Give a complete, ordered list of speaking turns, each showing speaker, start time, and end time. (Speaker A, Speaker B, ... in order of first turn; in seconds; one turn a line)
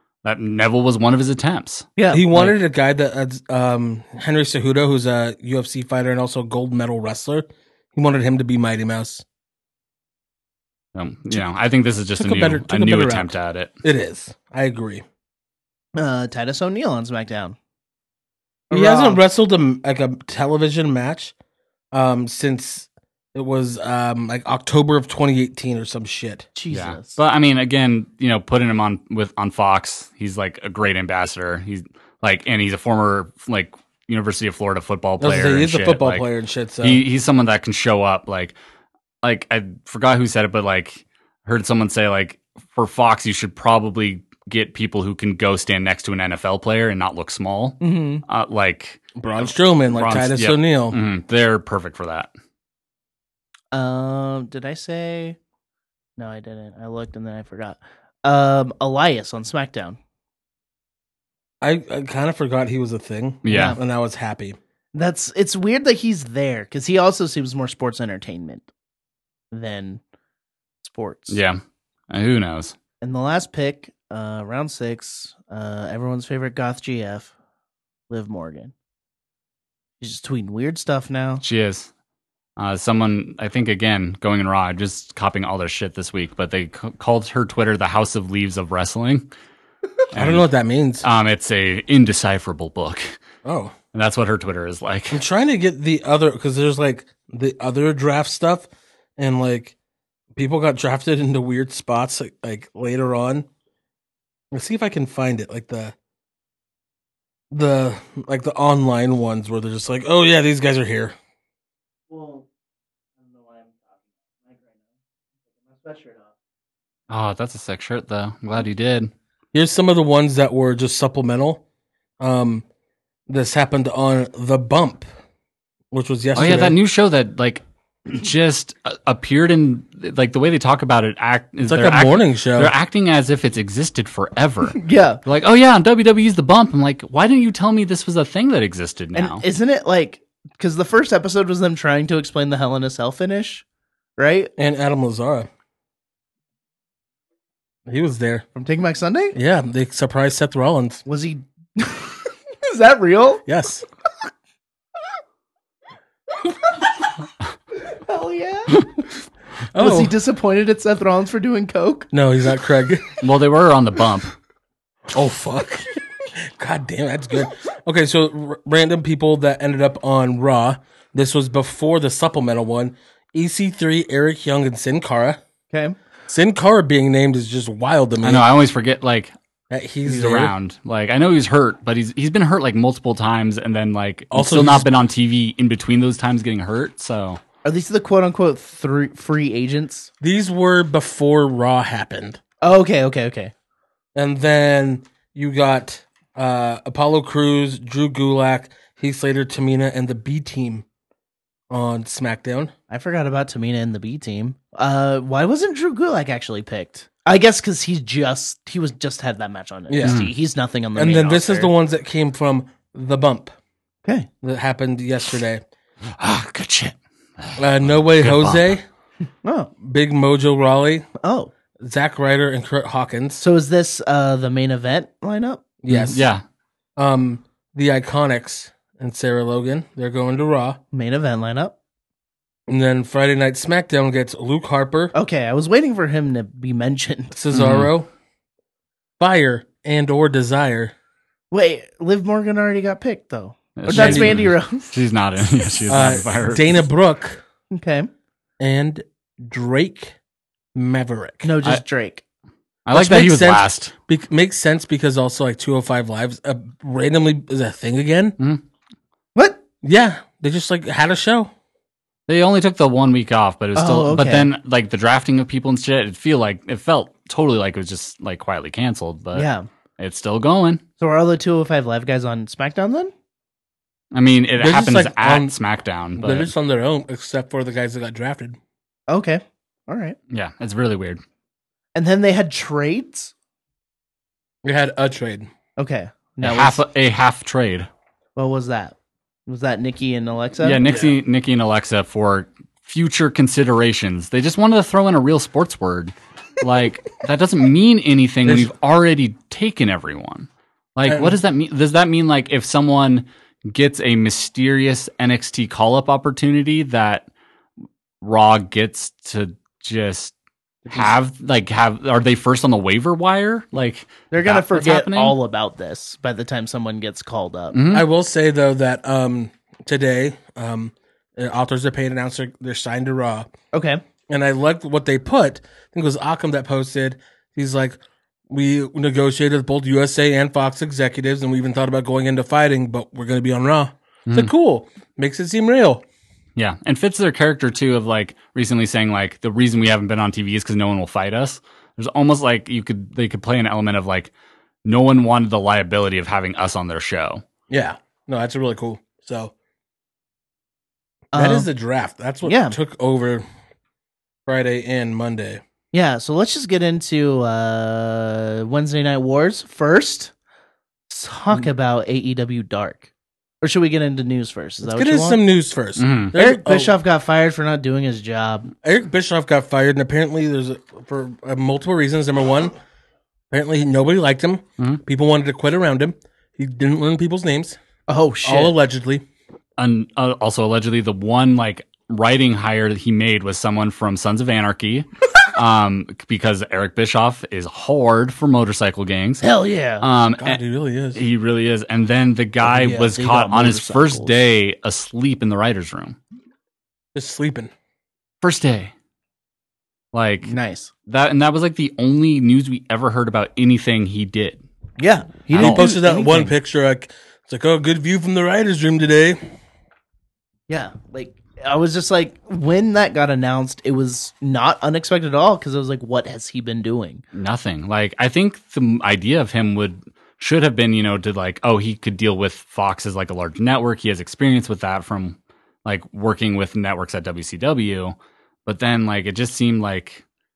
Speaker A: 0.2-2.5
Speaker B: 2.0-2.3
Speaker C: 2.1-9.2
Speaker A: 10.9-13.7
Speaker C: 12.2-15.0
Speaker B: 15.9-17.6
Speaker B: 18.7-19.2
Speaker C: 18.7-21.3
Speaker C: 21.9-26.5
Speaker B: 26.6-27.2
Speaker A: 26.7-36.3
Speaker C: 35.2-37.0
Speaker A: 36.8-38.5
Speaker A: 39.2-52.3
Speaker B: 47.8-48.2
Speaker C: 49.2-51.0
Speaker B: 53.7-55.4
Speaker B: 56.2-60.0
Speaker C: 61.6-64.6
Speaker A: 63.5-63.8
Speaker B: 63.5-63.8
Speaker B: 64.9-68.7
Speaker B: 69.5-70.0
Speaker B: 70.8-71.4
Speaker A: 71.3-72.8
Speaker B: 73.0-77.3
Speaker B: 78.1-78.7
Speaker B: 80.0-81.4
Speaker A: 81.4-81.9
Speaker A: 82.6-89.3
Speaker A: 90.1-90.5
Speaker C: 90.2-91.0
Speaker A: 91.0-93.2
Speaker C: 93.5-93.8
Speaker A: 93.9-95.2
Speaker C: 95.1-99.8
Speaker C: 100.3-103.5
Speaker C: 104.5-106.0
Speaker C: 107.5-111.2
Speaker B: 112.1-112.5
Speaker B: 113.2-114.8
Speaker B: 115.7-116.3
Speaker A: 117.1-119.1
Speaker C: 119.5-121.6
Speaker C: 122.2-122.7
Speaker C: 123.3-125.1
Speaker C: 125.9-126.8
Speaker A: 126.3-139.4
Speaker C: 131.6-132.7
Speaker B: 134.8-135.2
Speaker B: 139.2-143.6
Speaker B: 144.2-144.5
Speaker C: 144.6-145.5
Speaker C: 147.9-148.5
Speaker B: 148.6-149.4
Speaker C: 149.3-151.0
Speaker B: 151.1-153.4
Speaker C: 153.5-153.8
Speaker B: 157.9-158.8
Speaker C: 159.7-160.2
Speaker B: 159.8-162.1
Speaker C: 162.1-163.2
Speaker A: 163.2-164.3
Speaker C: 165.1-175.4
Speaker B: 175.7-176.0
Speaker C: 176.3-178.5
Speaker A: 178.2-179.3
Speaker C: 179.7-180.5
Speaker A: 180.1-187.4
Speaker C: 184.3-184.9
Speaker B: 187.6-190.1
Speaker C: 190.2-192.4
Speaker B: 192.6-193.5
Speaker C: 194.2-200.8
Speaker C: 201.7-202.7
Speaker B: 202.9-211.7
Speaker C: 209.9-210.2
Speaker A: 210.0-210.3
Speaker C: 210.9-213.6
Speaker C: 214.4-215.6
Speaker A: 216.1-218.8
Speaker C: 217.6-218.9
Speaker B: 219.4-219.7
Speaker C: 219.8-221.1
Speaker B: 221.2-221.5
Speaker C: 221.8-223.4
Speaker B: 223.4-225.7
Speaker C: 225.8-226.2
Speaker A: 225.9-226.4
Speaker C: 227.0-230.8
Speaker B: 230.9-231.8
Speaker C: 232.7-235.1
Speaker B: 235.1-237.3
Speaker C: 237.3-238.1
Speaker A: 237.5-237.9
Speaker C: 239.2-240.9
Speaker B: 241.5-244.9
Speaker A: 243.8-246.8
Speaker C: 243.9-244.4
Speaker C: 245.9-247.4
Speaker B: 247.7-248.1
Speaker C: 248.6-250.2
Speaker C: 250.8-251.5
Speaker B: 251.4-252.2
Speaker A: 252.9-253.9
Speaker C: 252.9-258.4
Speaker B: 259.4-259.6
Speaker C: 259.8-261.5
Speaker A: 262.3-270.8
Speaker B: 263.8-264.5
Speaker B: 269.4-269.7
Speaker B: 271.0-273.1
Speaker A: 274.1-276.5
Speaker C: 274.6-275.6
Speaker C: 276.2-278.6
Speaker B: 279.1-280.2
Speaker A: 280.3-281.2
Speaker B: 281.9-283.3
Speaker C: 284.6-285.5
Speaker B: 285.8-286.8
Speaker A: 286.4-287.9
Speaker B: 288.4-288.9
Speaker B: 289.5-290.8
Speaker A: 290.6-307.3
Speaker C: 290.9-291.1
Speaker C: 298.4-298.7
Speaker C: 301.1-301.4
Speaker A: 308.2-310.3
Speaker A: 310.9-315.4
Speaker B: 314.3-317.8
Speaker A: 317.7-318.1
Speaker C: 317.9-323.5
Speaker B: 323.7-324.0
Speaker C: 324.3-336.1
Speaker A: 336.6-344.3
Speaker A: 344.9-347.4
Speaker C: 347.7-349.5
Speaker B: 351.3-351.7
Speaker C: 351.3-353.4
Speaker B: 352.4-352.8
Speaker C: 354.5-355.6
Speaker B: 355.9-360.3
Speaker B: 361.1-363.1
Speaker B: 363.6-365.4
Speaker C: 364.8-367.0
Speaker A: 366.0-366.3
Speaker B: 366.3-368.7
Speaker C: 368.8-372.7
Speaker C: 373.5-377.8
Speaker B: 378.1-378.8
Speaker C: 378.4-379.2
Speaker A: 379.8-389.4
Speaker B: 389.4-390.1
Speaker A: 390.0-390.6
Speaker C: 390.4-391.2
Speaker A: 391.1-396.2
Speaker B: 392.6-394.4
Speaker C: 397.1-397.7
Speaker A: 398.4-398.9
Speaker A: 400.1-400.5
Speaker B: 400.4-400.9
Speaker A: 401.1-404.6
Speaker B: 405.0-406.5
Speaker A: 405.5-405.8
Speaker C: 405.5-409.4
Speaker B: 410.7-417.2
Speaker A: 417.3-430.2